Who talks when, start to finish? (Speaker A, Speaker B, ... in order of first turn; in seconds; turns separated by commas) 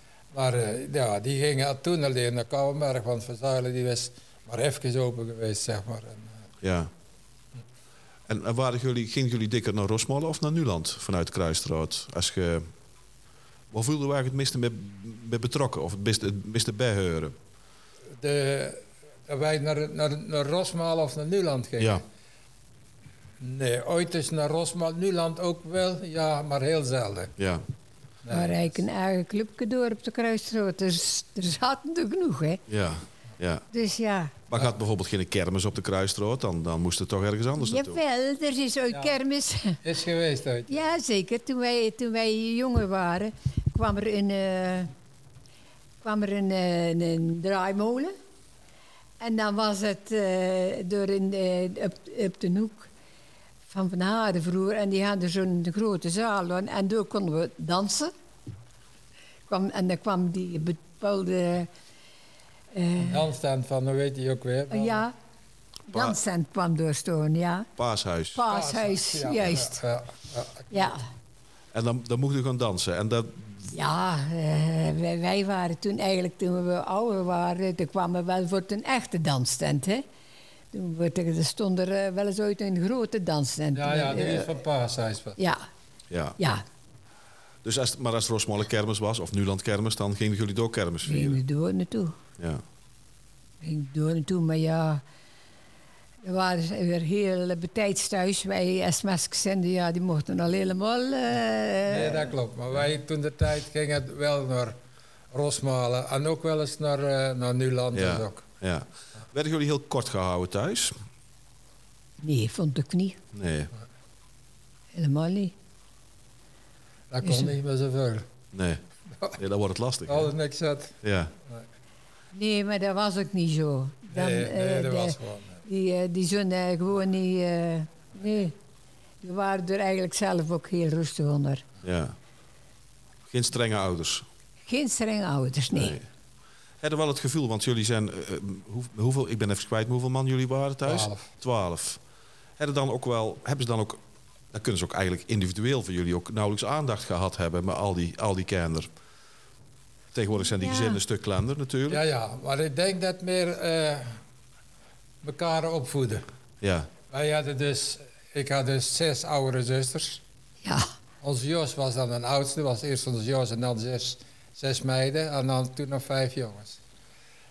Speaker A: 0.3-6.4, Speaker B: 6.6-6.9, Speaker B: 8.3-12.7, Speaker B: 13.7-17.3, Speaker A: 18.2-22.0, Speaker A: 23.4-27.3, Speaker B: 27.4-27.6, Speaker A: 28.2-28.8, Speaker C: 28.3-32.6, Speaker B: 32.7-33.6, Speaker C: 33.7-34.3, Speaker B: 34.5-38.0, Speaker C: 37.6-39.8, Speaker A: 39.8-40.9, Speaker C: 40.7-44.9, Speaker C: 46.0-48.1, Speaker C: 49.2-52.9, Speaker C: 53.7-58.1, Speaker C: 59.5-61.7, Speaker C: 62.7-63.3, Speaker A: 63.0-65.0, Speaker C: 64.7-65.1, Speaker C: 65.9-67.7, Speaker B: 65.9-66.2, Speaker B: 67.8-68.4, Speaker C: 68.3-69.8, Speaker A: 68.5-70.9, Speaker C: 70.7-71.0, Speaker B: 71.7-73.7, Speaker C: 73.7-80.0, Speaker C: 80.7-84.5, Speaker A: 83.7-85.4, Speaker C: 85.4-85.6, Speaker B: 86.1-86.4, Speaker C: 86.4-86.6, Speaker B: 87.6-91.4, Speaker C: 91.0-92.2, Speaker B: 92.4-92.6, Speaker C: 93.6-95.0, Speaker C: 96.2-102.3, Speaker A: 101.9-104.8, Speaker A: 105.3-108.4, Speaker B: 107.9-110.9, Speaker C: 112.2-113.2, Speaker B: 113.3-113.7, Speaker C: 114.9-115.5, Speaker A: 117.1-118.3, Speaker C: 117.2-117.5, Speaker B: 118.5-118.8, Speaker B: 119.4-120.3, Speaker A: 120.1-121.0, Speaker B: 121.0-121.3, Speaker C: 122.3-128.5, Speaker A: 124.1-125.6, Speaker C: 129.2-131.6, Speaker B: 131.8-132.2, Speaker B: 133.3-134.2, Speaker C: 134.7-136.0, Speaker B: 135.7-136.1, Speaker B: 136.8-142.0, Speaker A: 140.8-141.3, Speaker B: 142.6-144.0, Speaker B: 144.5-148.9, Speaker B: 150.1-152.0, Speaker C: 150.5-151.0, Speaker A: 151.9-154.2, Speaker A: 155.2-156.2, Speaker B: 156.6-156.9, Speaker A: 157.1-160.2, Speaker C: 160.6-160.9, Speaker A: 161.2-166.8